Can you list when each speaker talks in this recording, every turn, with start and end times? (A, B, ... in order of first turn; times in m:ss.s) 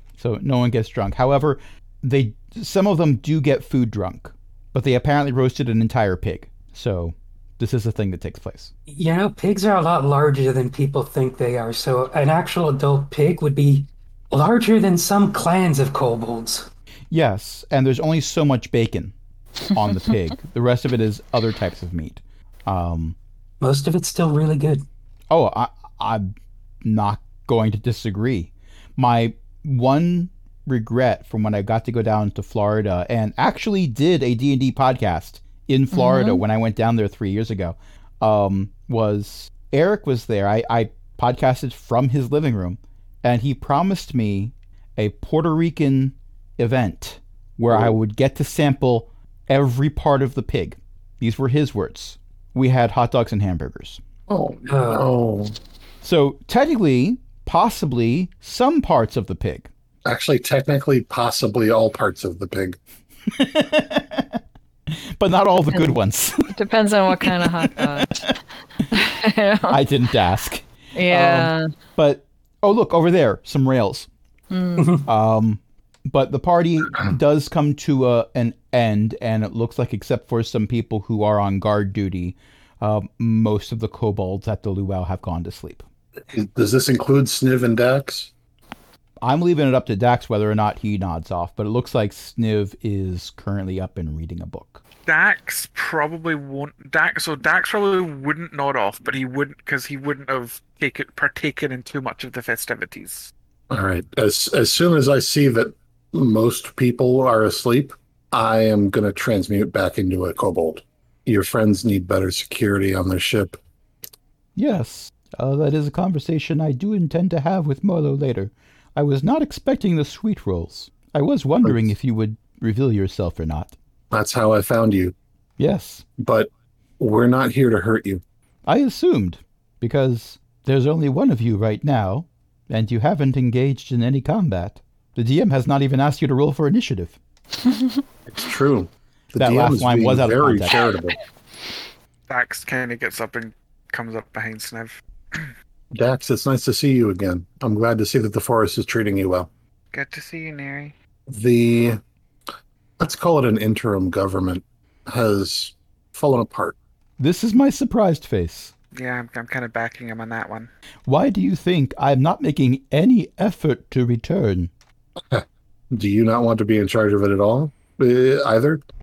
0:00.2-0:08.7 A
0:08.9-0:16.7 B
0:17.1-0:19.1 A
0:19.7-0:23.2 A
0:23.6-0:24.8 B
0:25.3-0:26.3 A
0:26.8-0:54.0 A
0:35.9-0:36.4 C
0:47.7-0:48.0 D
0:54.3-0:55.6 D
0:54.7-0:55.1 B
0:56.0-0:59.7 A
1:00.0-1:02.8 D
1:03.3-1:06.6 A
1:06.5-1:08.3 C
1:07.2-1:08.3 A
1:08.9-1:09.8 C
1:09.7-1:14.1 A
1:11.0-1:11.7 C
1:14.5-1:15.0 C
1:14.8-1:15.1 B
1:15.1-1:25.8 A
1:26.3-1:28.3 D
1:29.2-1:34.8 A
1:35.1-1:43.3 E
1:43.7-1:53.6 D
1:54.6-2:03.8 A
2:04.1-2:05.2 D
2:05.6-2:06.1 A
2:06.2-2:08.2 D
2:08.7-2:17.2 A
2:18.3-2:21.2 D
2:19.4-2:20.9 A
2:22.3-2:25.5 E
2:25.9-2:29.5 D
2:29.9-2:30.9 E
2:31.3-2:32.0 D
2:33.0-2:36.8 D
2:37.2-2:38.7 A
2:38.9-2:40.7 E
2:41.1-2:44.7 A
2:45.3-2:48.8 D